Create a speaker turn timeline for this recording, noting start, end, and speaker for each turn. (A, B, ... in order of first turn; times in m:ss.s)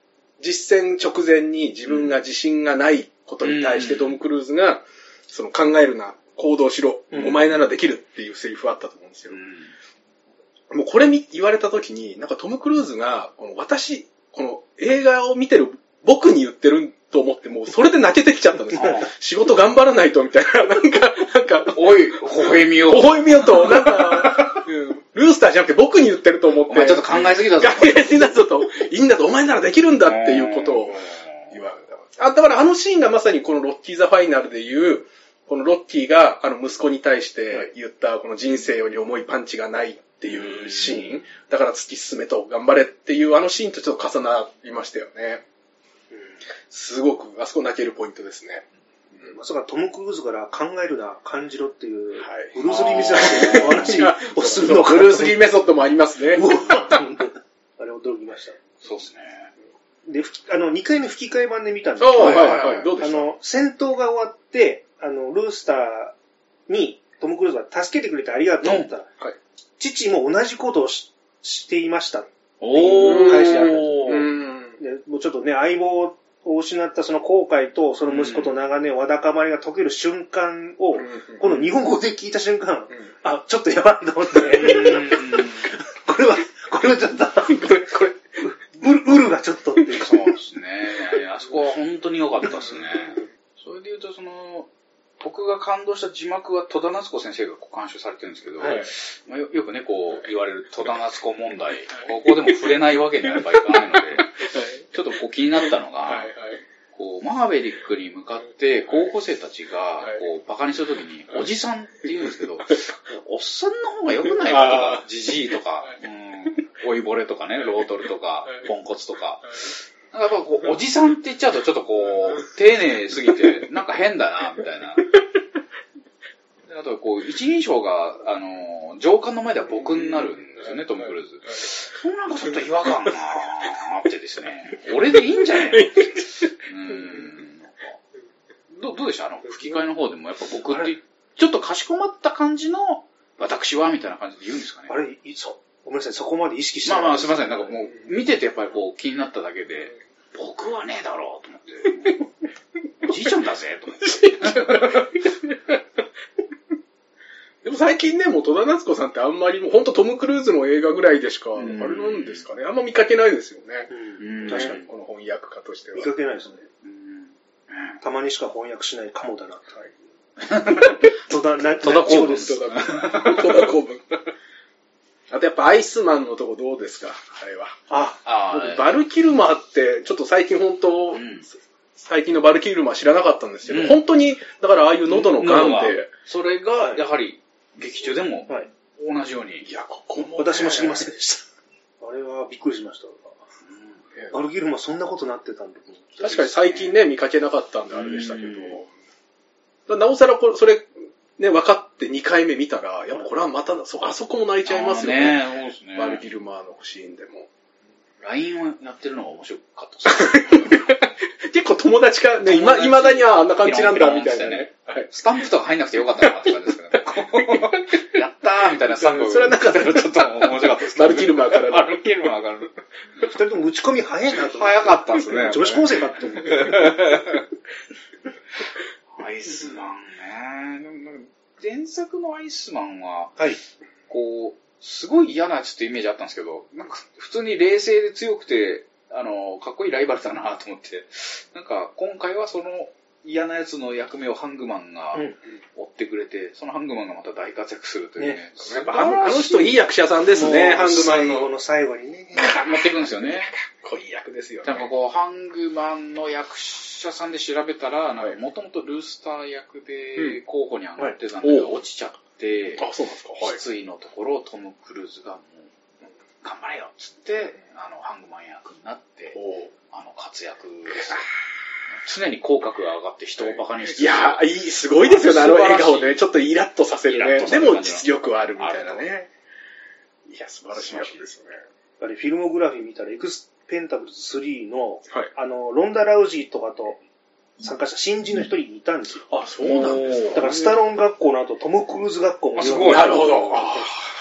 0:00.4-0:09.4 A
0:03.4-0:04.2 B
0:09.3-0:09.7 B
0:10.7-0:45.4 A
0:18.7-0:19.1 B
0:21.7-0:24.5 B
0:26.6-0:28.2 B
0:30.0-0:31.2 B
0:40.7-0:41.2 B
0:46.7-0:48.6 A
0:49.2-0:55.5 C
0:52.6-0:54.1 B
0:53.2-0:57.0 A
0:56.3-0:58.6 C
0:58.8-0:59.5 B
1:00.0-1:06.1 C
1:02.0-1:03.3 A
1:02.2-1:02.9 B
1:06.7-1:09.1 C
1:08.6-1:08.9 B
1:09.8-1:14.2 C
1:12.6-1:14.3 B
1:12.8-1:14.8 A
1:14.8-1:30.2 C
1:18.1-1:18.5 B
1:21.0-1:21.6 A
1:24.5-1:25.7 B
1:27.5-1:28.2 A
1:29.9-1:34.7 B
1:35.2-1:46.3 B
1:38.6-1:38.9 A
1:44.2-1:44.8 A
1:46.1-1:46.6 A
1:46.9-2:05.2 B
1:54.4-1:55.0 A
2:06.7-2:18.0 B
2:15.7-2:16.4 A
2:18.7-2:24.9 B
2:24.9-2:27.7 C
2:26.8-2:32.2 B
2:33.0-2:35.1 B
2:34.0-2:35.7 A
2:37.6-2:43.9 A
2:41.6-2:42.4 B
2:43.9-2:44.8 C
2:44.2-2:44.8 B
2:44.4-2:46.1 A
2:46.0-2:46.6 C
2:46.8-2:48.0 B
2:48.0-2:49.8 C
2:50.5-2:51.1 B
2:50.7-2:52.6 C
2:51.8-2:53.7 B
2:52.1-2:54.0 A
2:55.3-2:57.8 A
2:57.9-2:58.2 C
2:57.9-2:59.0 B
2:58.5-3:01.3 A
3:01.1-3:01.4 B
3:02.0-3:06.1 A
3:03.7-3:04.0 B
3:05.1-3:09.7 B
3:09.6-3:11.0 A
3:10.4-3:11.4 C
3:12.0-3:13.3 C
3:14.3-3:16.3 C
3:16.2-3:18.9 A
3:16.2-3:16.9 B
3:17.9-3:18.7 B
3:19.9-3:27.5 A
3:24.6-3:26.2 B
3:28.2-3:31.0 B
3:30.1-3:35.1 A
3:32.4-3:42.7 B
3:37.5-3:37.9 A
3:38.8-3:42.0 A
3:43.2-3:46.9 C
3:44.4-3:47.4 B
3:49.2-3:53.4 B
3:54.1-4:09.8 B
4:08.2-4:08.4 C
4:08.6-4:11.5 A
4:10.3-4:12.7 C
4:12.4-4:13.5 B
4:13.2-4:14.9 A
4:14.6-4:25.7 B
4:21.4-4:21.8 A
4:22.8-4:23.6 A
4:26.4-4:29.4 B
4:29.3-4:29.7 A
4:29.9-4:31.2 B
4:32.0-4:36.2 B
4:33.4-4:39.3 A
4:37.1-4:39.0 B
4:40.3-4:41.6 A
4:40.7-4:41.2 B
4:42.0-4:47.0 C
4:47.6-4:49.3 C
4:49.3-4:50.7 A
4:49.6-4:50.5 B
4:50.3-4:53.9 C
4:52.6-4:53.6 B
4:52.8-4:54.0 A